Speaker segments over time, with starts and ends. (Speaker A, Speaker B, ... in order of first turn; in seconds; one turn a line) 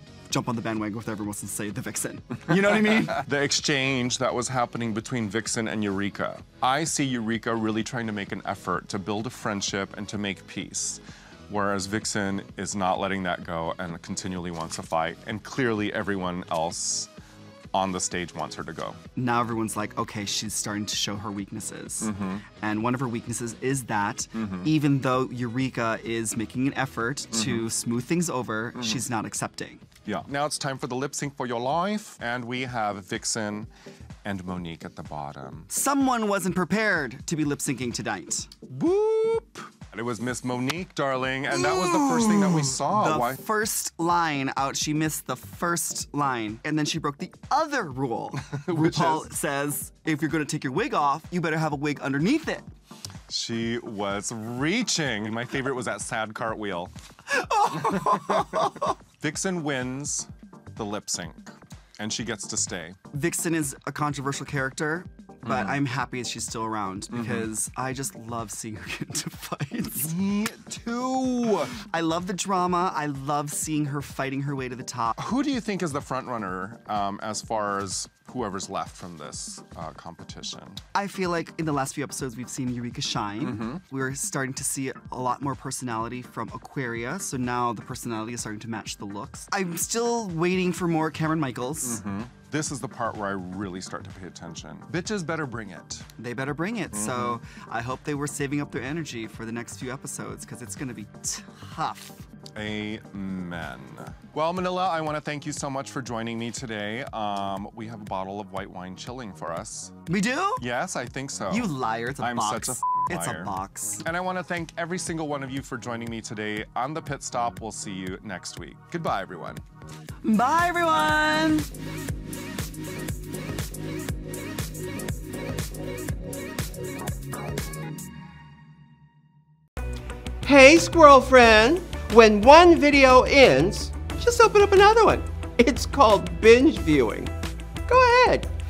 Speaker A: 0.3-3.2
Speaker B: 2.9-17.1
Speaker B: 17.7-19.0
Speaker A: 19.1-29.8
Speaker B: 22.0-22.4
Speaker B: 24.4-24.7
Speaker B: 27.3-27.6
Speaker B: 30.1-33.7
Speaker B: 34.2-35.7
Speaker A: 35.7-38.5
Speaker B: 38.7-43.4
Speaker A: 41.6-52.6
Speaker B: 48.4-49.3
Speaker B: 53.3-56.9
Speaker A: 57.3-58.9
Speaker B: 57.8-58.6
Speaker B: 59.2-63.0
Speaker A: 63.1-70.2
Speaker B: 65.5-65.8
Speaker B: 67.1-67.5
Speaker B: 70.0-71.8
Speaker A: 71.8-75.2
Speaker B: 75.2-80.8
Speaker A: 80.9-92.0
Speaker B: 83.4-83.8
Speaker B: 91.8-96.1
Speaker A: 96.2-102.2
Speaker B: 96.9-97.4
Speaker B: 102.5-110.0
Speaker A: 110.1-110.6
Speaker B: 110.6-113.5
Speaker A: 111.5-114.0
Speaker B: 114.0-119.6
Speaker A: 120.2-121.7
Speaker C: 130.4-137.3
Speaker C: 137.9-138.5